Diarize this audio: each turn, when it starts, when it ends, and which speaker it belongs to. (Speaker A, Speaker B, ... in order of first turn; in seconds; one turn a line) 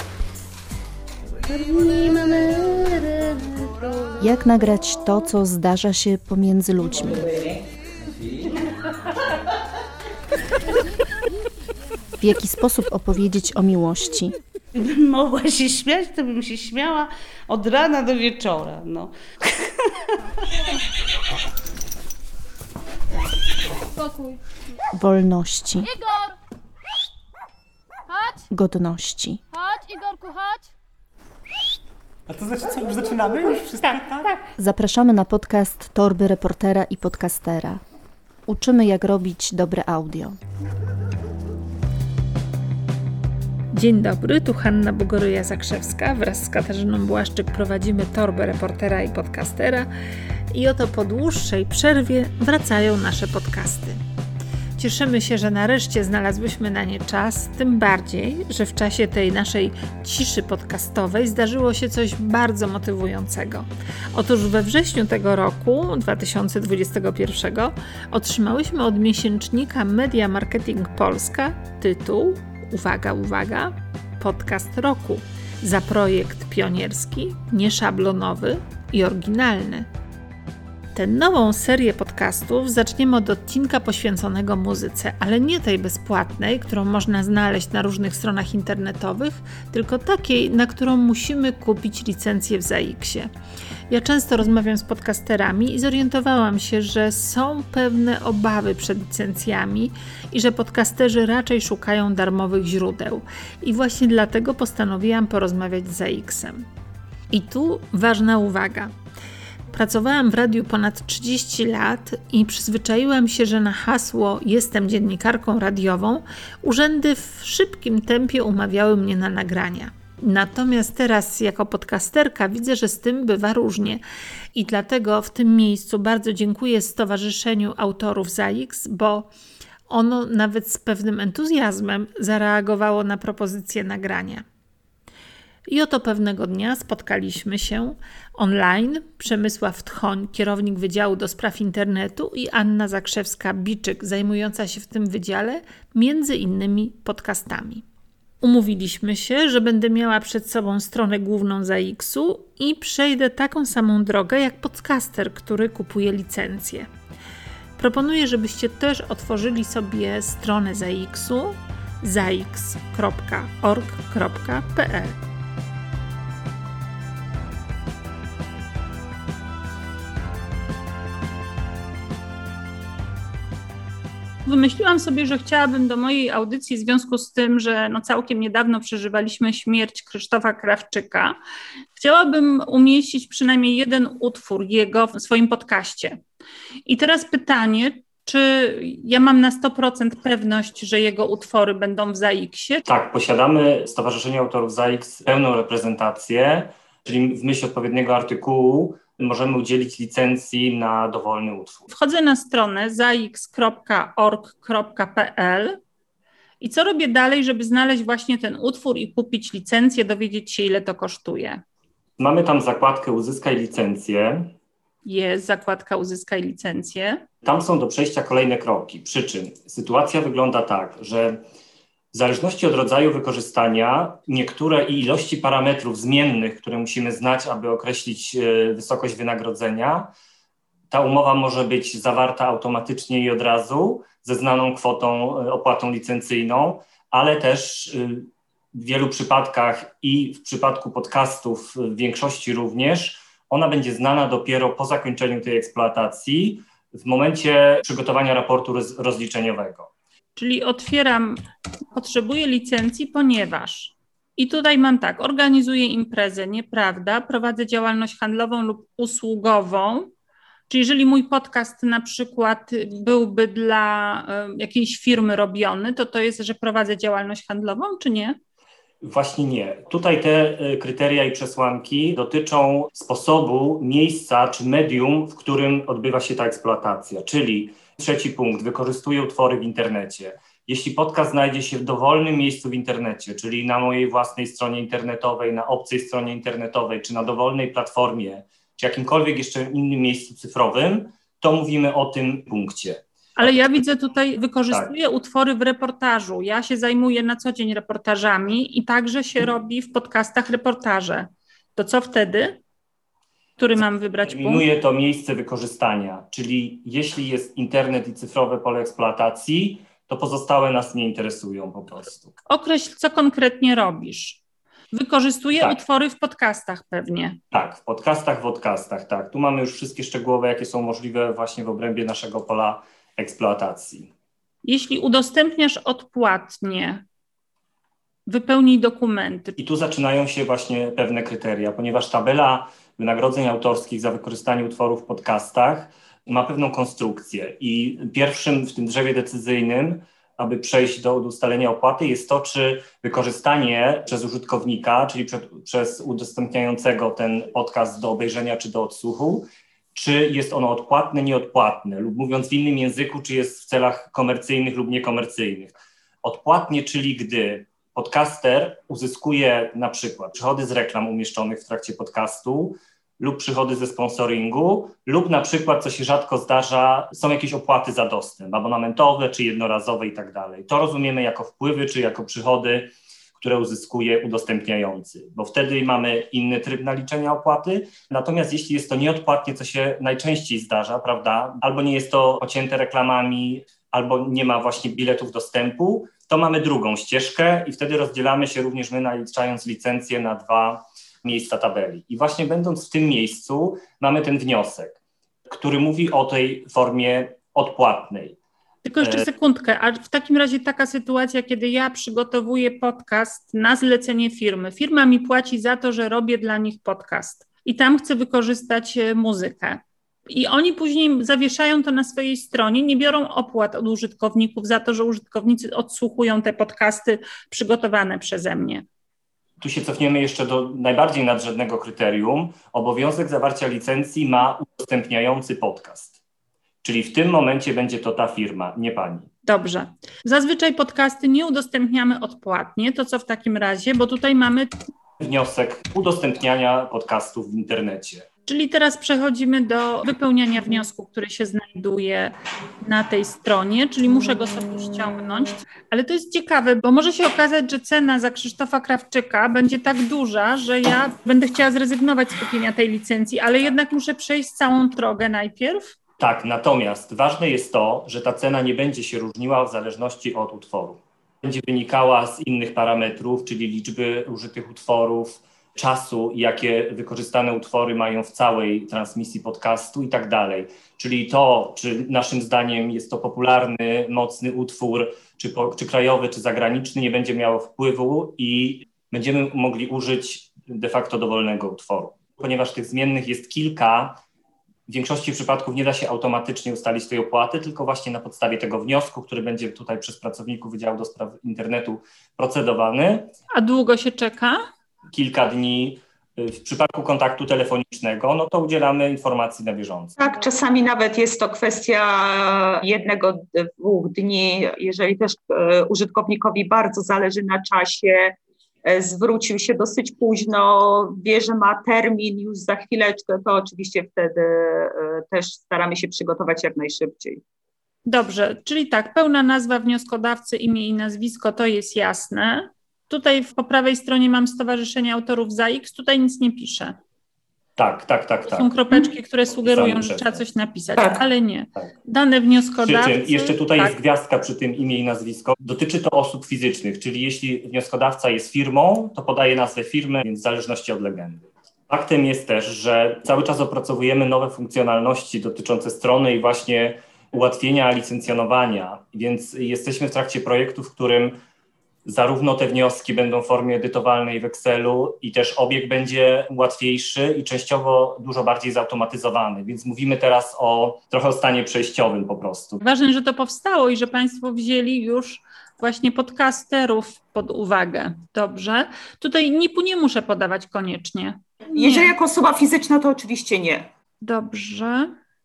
Speaker A: 1.4-3.6
Speaker B: 4.2-7.2
Speaker B: 12.2-14.3
Speaker A: 14.7-19.8
Speaker B: 24.9-25.9
Speaker B: 28.5-29.4
Speaker C: 32.3-34.4
Speaker B: 34.6-37.8
Speaker B: 38.5-40.4
Speaker D: 43.7-49.9
Speaker D: 50.5-54.0
Speaker D: 54.8-79.9
Speaker D: 80.9-93.3
Speaker D: 93.9-106.7
Speaker D: 107.3-108.9
Speaker D: 109.7-124.0
Speaker D: 124.5-129.3
Speaker D: 129.9-134.4
Speaker D: 135.7-147.8
Speaker D: 148.4-156.9
Speaker D: 157.8-165.2
Speaker E: 174.4-181.4
Speaker E: 181.9-186.2
Speaker E: 186.8-192.8
Speaker F: 192.8-201.9
Speaker E: 201.9-205.8
Speaker E: 206.6-211.6
Speaker F: 212.2-214.5
Speaker E: 215.0-217.2
Speaker F: 217.4-221.4
Speaker F: 222.1-230.1
Speaker F: 230.9-249.9
Speaker E: 250.3-260.1
Speaker E: 260.7-268.4
Speaker F: 269.0-293.0
Speaker E: 293.4-302.6
Speaker E: 303.6-304.6
Speaker F: 304.2-312.4
Speaker E: 312.5-314.4
Speaker E: 314.9-317.4
Speaker F: 317.5-324.1
Speaker E: 324.6-327.0
Speaker E: 328.3-329.6
Speaker F: 329.6-398.4
Speaker E: 398.8-418.8
Speaker F: 399.0-399.3
Speaker F: 419.6-426.2
Speaker F: 426.8-429.3
Speaker E: 429.4-434.7
Speaker F: 435.2-438.3
Speaker E: 438.5-455.9
Speaker F: 456.2-484.2
Speaker F: 484.9-493.3
Speaker E: 493.5-494.6
Speaker F: 495.1-500.2
Speaker G: 500.2-517.4
Speaker E: 518.0-527.0
Speaker F: 527.8-528.7
Speaker E: 528.5-533.9
Speaker F: 529.5-530.4
Speaker F: 532.8-551.4
Speaker F: 552.0-562.8
Speaker E: 562.8-572.1
Speaker G: 571.7-573.9
Speaker E: 574.2-575.1